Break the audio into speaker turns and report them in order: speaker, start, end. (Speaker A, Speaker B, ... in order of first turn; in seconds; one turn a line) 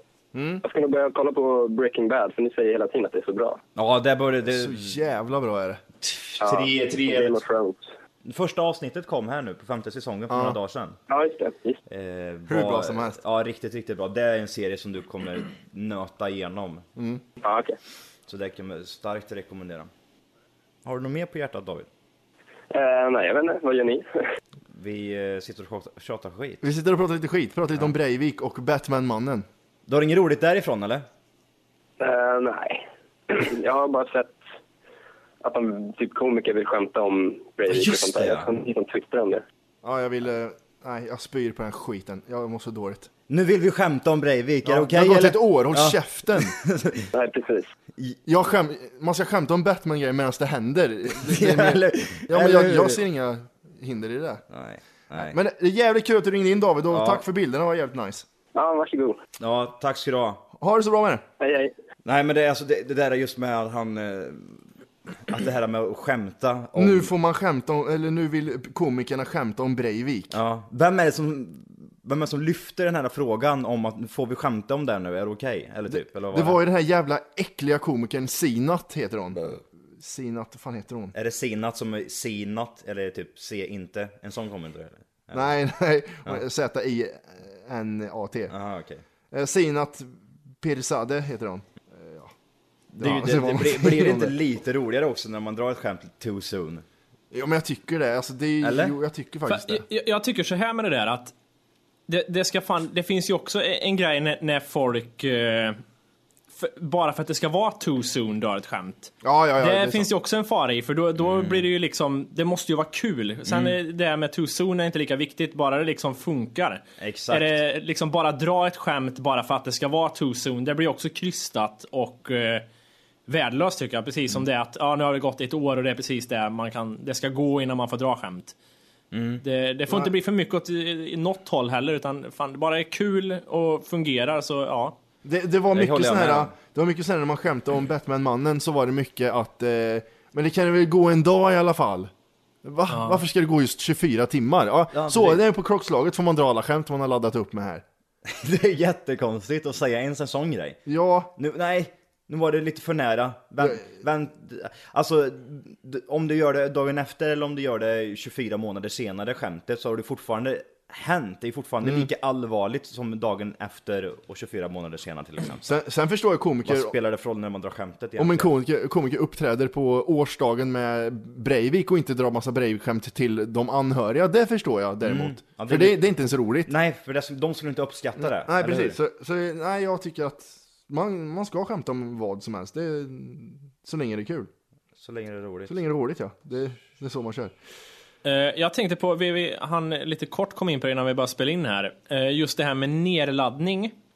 Speaker A: 0.3-0.6
Speaker B: 0.6-3.6
Speaker C: 3.8-5.0
Speaker A: 4.5-5.8
Speaker C: 6.0-7.4
Speaker B: 6.4-7.9
Speaker C: 8.2-11.0
Speaker A: 10.3-10.6
Speaker B: 11.1-11.8
Speaker C: 11.9-16.9
Speaker A: 12.5-13.2
Speaker A: 17.0-17.2
Speaker B: 17.4-17.8
Speaker C: 18.3-19.9
Speaker C: 20.9-21.9
Speaker B: 22.7-24.1
Speaker C: 24.7-26.7
Speaker A: 26.6-29.5
Speaker C: 29.9-31.1
Speaker B: 32.0-34.4
Speaker B: 35.4-39.4
Speaker C: 37.7-38.5
Speaker A: 39.8-43.1
Speaker C: 43.3-47.1
Speaker A: 44.6-46.6
Speaker B: 47.1-47.7
Speaker A: 48.3-54.4
Speaker C: 51.2-53.0
Speaker C: 54.5-55.4
Speaker A: 55.2-58.3
Speaker C: 56.9-57.2
Speaker B: 58.5-59.2
Speaker C: 59.4-60.4
Speaker A: 60.6-61.2
Speaker B: 61.4-61.7
Speaker C: 62.0-64.7
Speaker C: 65.3-67.1
Speaker A: 66.8-70.4
Speaker C: 70.3-76.6
Speaker A: 75.9-81.1
Speaker C: 81.1-85.5
Speaker A: 85.3-88.5
Speaker C: 88.5-89.0
Speaker A: 89.3-90.1
Speaker A: 90.6-92.3
Speaker C: 92.9-96.8
Speaker A: 93.0-94.4
Speaker A: 97.3-99.8
Speaker C: 98.6-99.0
Speaker D: 99.5-101.3
Speaker D: 102.1-105.8
Speaker D: 106.5-122.7
Speaker A: 109.2-110.1
Speaker C: 111.2-111.7
Speaker C: 113.5-113.8
Speaker C: 117.0-117.6
Speaker D: 123.3-128.6
Speaker C: 129.1-129.4
Speaker D: 129.4-134.9
Speaker A: 135.2-142.1
Speaker C: 135.7-136.5
Speaker A: 142.6-147.8
Speaker D: 142.9-143.2
Speaker C: 144.9-145.4
Speaker C: 148.3-150.8
Speaker A: 150.9-151.3
Speaker C: 151.4-165.8
Speaker A: 161.8-162.1
Speaker A: 165.7-166.9
Speaker C: 166.7-168.5
Speaker A: 168.2-176.7
Speaker C: 175.0-176.1
Speaker C: 176.7-179.0
Speaker A: 178.2-184.5
Speaker C: 185.0-185.8
Speaker A: 185.7-187.6
Speaker D: 188.2-193.9